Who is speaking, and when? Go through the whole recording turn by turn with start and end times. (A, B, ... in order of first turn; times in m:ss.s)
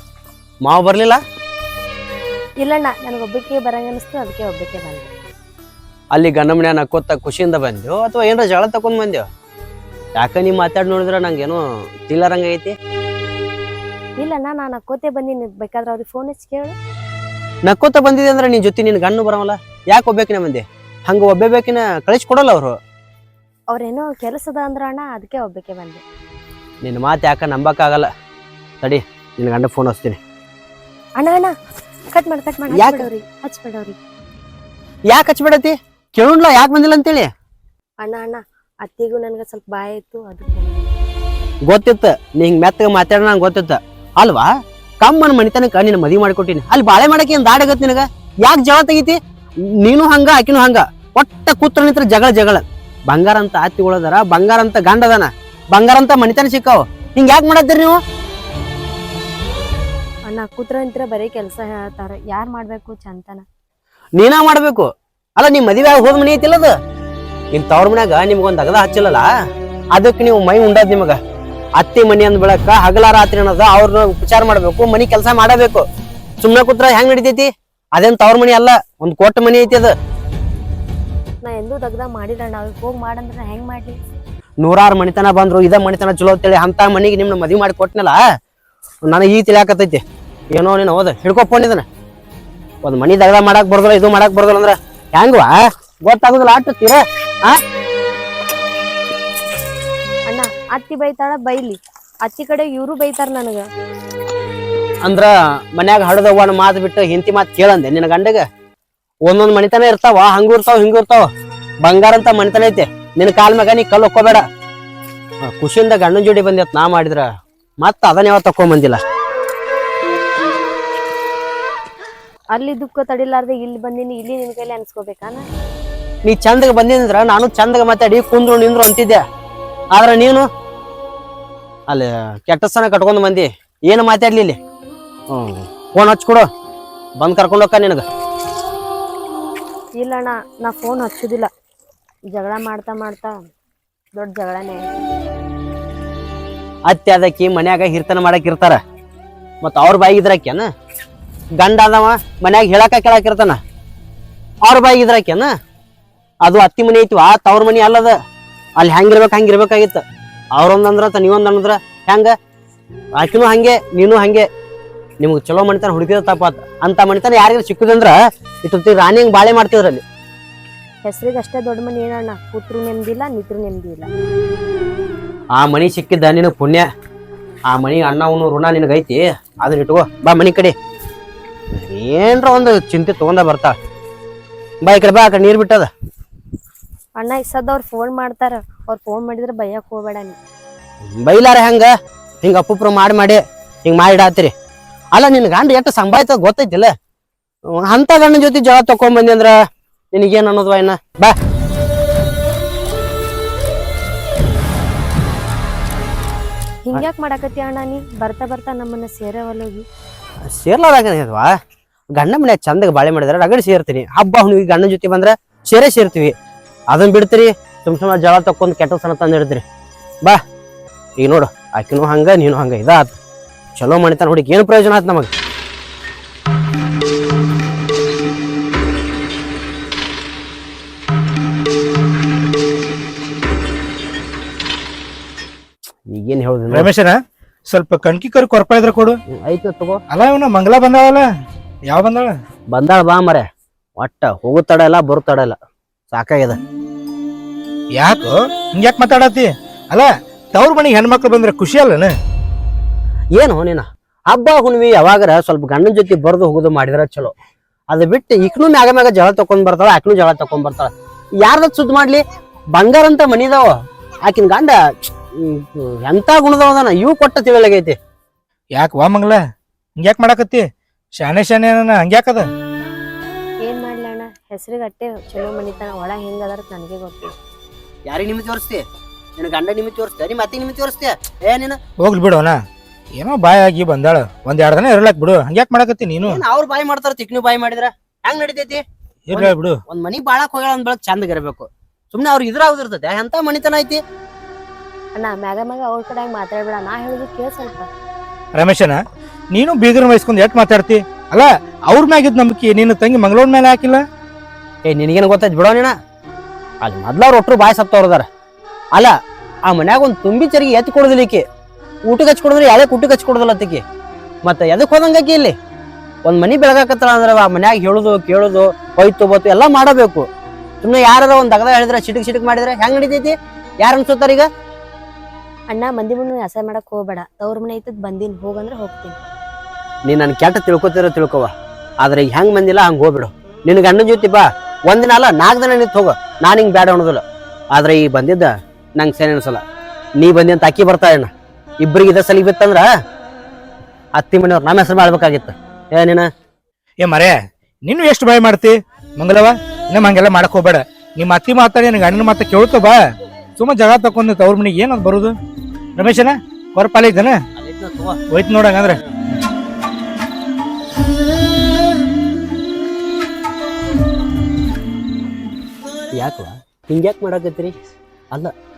0:00.6-0:01.2 A
0:02.6-0:05.1 B
0:06.1-0:09.2 A
0:10.2-0:12.8 A
0:14.2-0:16.8 B
0:17.6-0:22.8 A
0:23.7-0:26.0 B
0:26.8-0:28.1 A
0:28.8-0:30.2 A
0:31.2-0:31.5 B
0:32.1-0:34.0 B
0:32.7-0:33.1 A
0:35.1-0:37.3 A
0:38.0-0:40.8 B
0:41.6-0:58.0 A
1:00.3-1:03.4 B
1:04.1-1:06.8 A
1:07.5-1:09.3 A
1:09.9-1:11.2 A
1:11.8-1:15.8 A
1:16.4-1:20.0 A
1:21.4-1:24.0 B
1:24.6-1:28.2 A
1:29.0-1:31.8 A
1:32.8-1:37.6 A
1:40.3-1:43.7 B
1:45.0-1:48.5 A
1:49.2-1:51.3 A
1:51.8-1:54.4 A
1:55.4-1:57.3 A
1:57.8-1:59.0 A
2:02.5-2:05.4 B
2:06.2-2:09.2 A
2:09.9-2:10.5 A
2:11.9-2:14.6 A
2:15.3-2:16.5 A
2:17.2-2:18.0 A
2:20.0-2:21.5 B
2:22.3-2:23.4 B
2:24.1-2:24.9 B
2:26.8-2:28.8 A
2:29.6-2:30.7 A
2:31.6-2:33.6 A
2:34.6-2:35.5 A
2:36.4-2:38.2 A
2:38.8-2:40.0 A
2:40.5-2:42.4 A
2:43.1-2:44.5 A
2:45.2-2:50.0 A
2:51.0-2:54.1 B
2:55.5-2:56.8 A
2:57.7-3:00.7 A
3:01.7-3:03.8 A
3:04.8-3:05.9 A
3:07.2-3:10.4 B
3:11.0-3:11.9 A
3:12.4-3:14.5 A
3:15.1-3:16.9 A
3:17.7-3:19.6 A
3:20.1-3:21.4 A
3:26.8-3:29.8 B
3:30.4-3:31.6 A
3:32.1-3:36.3 A
3:36.9-3:39.6 A
3:41.2-3:43.1 A
3:43.8-3:45.3 A
3:56.1-3:56.9 A
3:56.7-3:59.2 C
3:59.3-4:00.0 A
4:00.1-4:01.3 C
4:01.9-4:02.4 C
4:02.7-4:03.5 A
4:04.0-4:05.6 A
4:06.1-4:06.6 A
4:08.0-4:12.1 C
4:13.3-4:17.3 A
4:17.9-4:22.2 A
4:22.7-4:28.0 A
4:28.7-4:29.4 C
4:30.0-4:30.7 C
4:31.2-4:32.5 C
4:33.6-4:37.3 B
4:38.1-4:38.8 A
4:39.4-4:41.8 A
4:42.0-4:42.6 C
4:43.2-4:46.4 C
4:46.2-4:54.0 A
4:49.3-4:49.8 C
4:55.2-4:57.9 B
4:58.5-5:04.0 C
5:04.8-5:05.9 A
5:06.8-5:08.3 A
5:08.9-5:11.4 A
5:12.1-5:13.8 A
5:14.4-5:15.6 A
5:16.2-5:20.2 A
5:20.8-5:24.5 A
5:25.7-5:29.2 B
5:30.0-5:39.6 A
5:40.2-5:42.9 A
5:44.1-5:46.3 A
5:47.0-5:53.0 C
5:53.6-5:55.4 C
5:56.0-5:57.4 C
5:57.6-5:58.2 A
5:58.3-5:59.0 C
6:06.1-6:08.5 A